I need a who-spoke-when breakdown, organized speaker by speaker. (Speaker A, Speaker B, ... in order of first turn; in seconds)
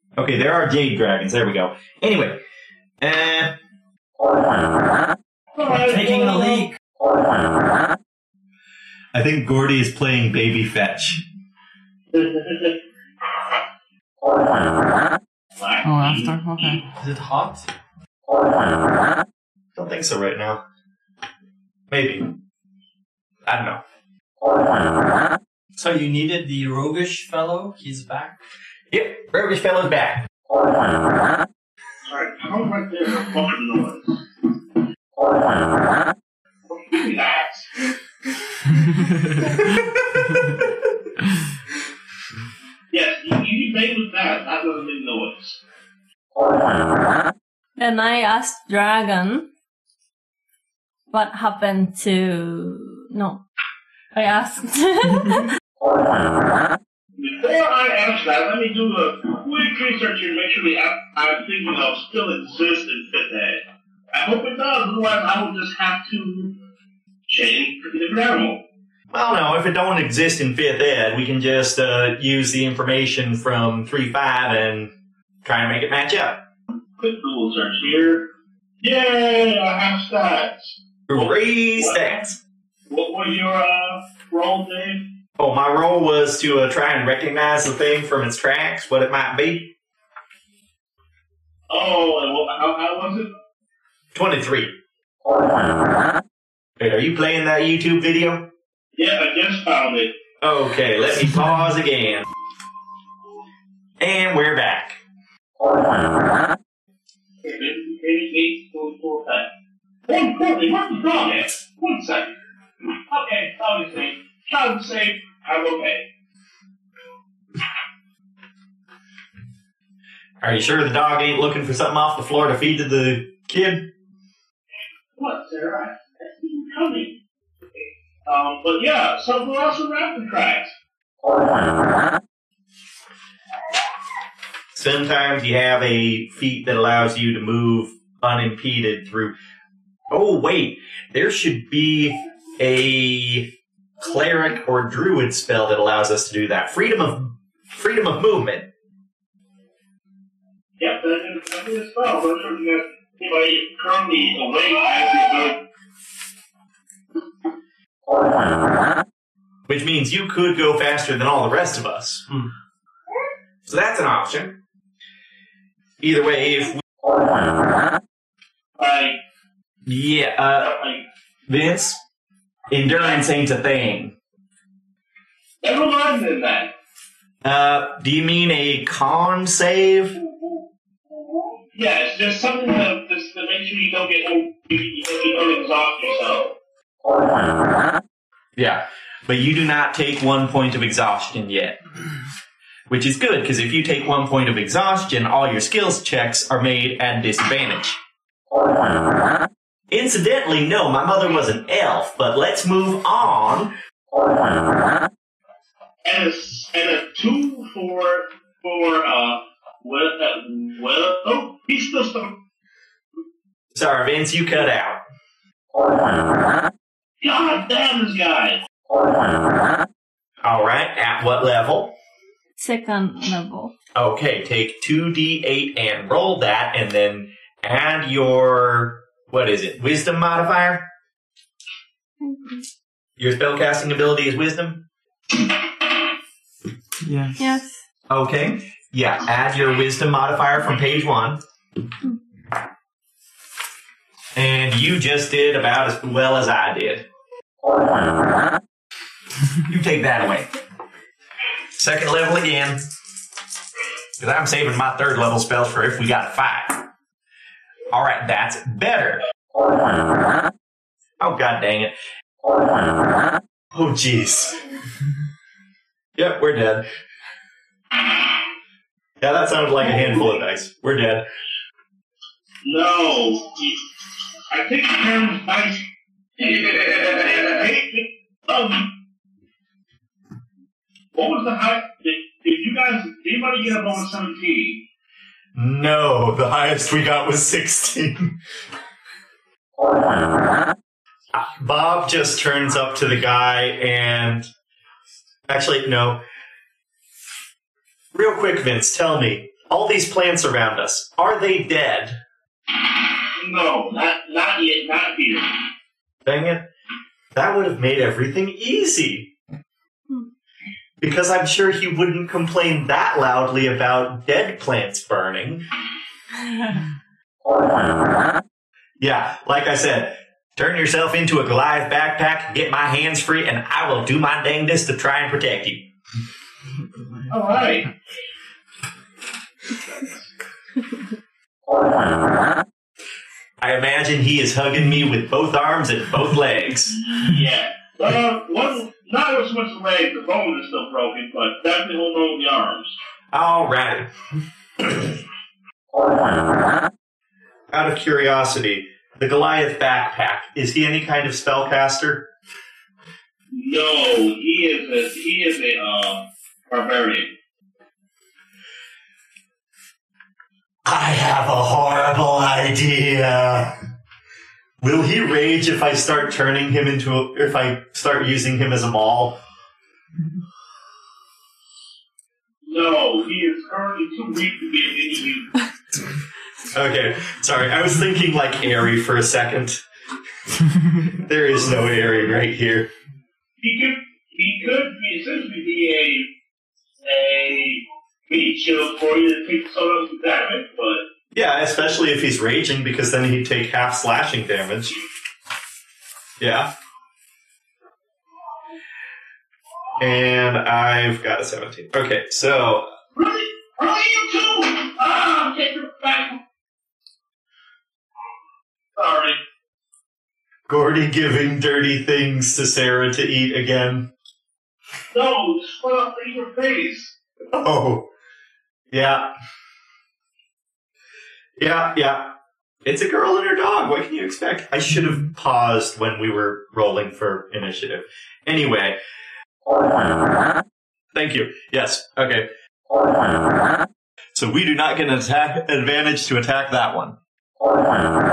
Speaker A: 0.2-2.4, 3.0-3.6, 9.1-11.2, 19.8-20.6, 21.9-22.4, 23.4-23.8, 28.9-30.3, 69.1-74.9, 75.4-76.4, 81.1-82.4, 85.4-89.7, 94.1-94.8, 96.8-98.5, 100.4-102.3, 104.0-105.0, 120.4-123.9, 134.7-139.4, 140.1-148.7, 159.7-162.3, 163.7-164.6, 166.0-166.8, 169.9-170.8, 171.5-172.0, 172.7-174.2, 177.4-180.2, 188.6-191.8, 192.9-198.0, 199.9-203.8, 213.7-215.0, 220.4-221.9, 223.9-230.9, 233.2-234.9, 238.1-241.4, 244.3-247.1, 249.7-250.5, 251.8-252.9, 254.2-256.9, 257.9-259.2, 261.2-261.9, 263.7-264.6, 266.2-266.9, 269.2-271.3, 285.6-288.3, 291.3-294.5, 295.5-296.2, 298.1-302.2, 306.2-306.7, 307.3-309.3, 311.0-315.6, 319.0-325.9, 333.6-337.0, 343.3-344.1, 347.7-352.3, 360.9-363.8, 364.8-369.4, 376.7-379.8, 381.2-382.9, 391.3-395.0, 396.4-396.7, 400.0-402.9, 410.7-414.1, 417.5-418.1, 418.9-419.3, 421.6-429.0, 431.1-432.5, 434.3-437.2
Speaker B: 5.5-6.7, 12.1-12.8, 15.6-16.8, 32.0-34.2, 36.7-37.9, 42.9-45.6, 57.2-66.6, 67.3-68.6, 77.0-78.3, 78.8-82.1, 82.9-85.1, 91.7-93.3, 99.0-100.2, 107.4-109.5, 110.1-112.4, 113.1-116.1, 125.2-127.2, 128.3-130.7, 150.8-155.6, 168.8-169.2, 170.6-171.0, 175.6-176.7, 181.7-186.6, 206.1-212.4, 217.2-218.6, 272.6-273.9, 274.5-275.9, 276.4-278.9, 281.1-284.9, 303.3-305.7, 327.3-327.9, 336.9-342.9, 353.5-357.4, 372.6-375.6, 381.5-382.3, 383.6-386.3, 387.0-391.1, 403.1-406.4, 409.0-409.4, 415.1-417.1
Speaker C: 5.8-6.8, 17.0-17.7, 25.8-28.4
Speaker D: 15.8-16.9, 38.9-39.3, 237.0-237.6, 326.9-327.8
Speaker E: 47.8-49.5, 51.1-53.4, 54.1-55.5, 222.6-223.7, 232.2-232.7, 237.4-237.8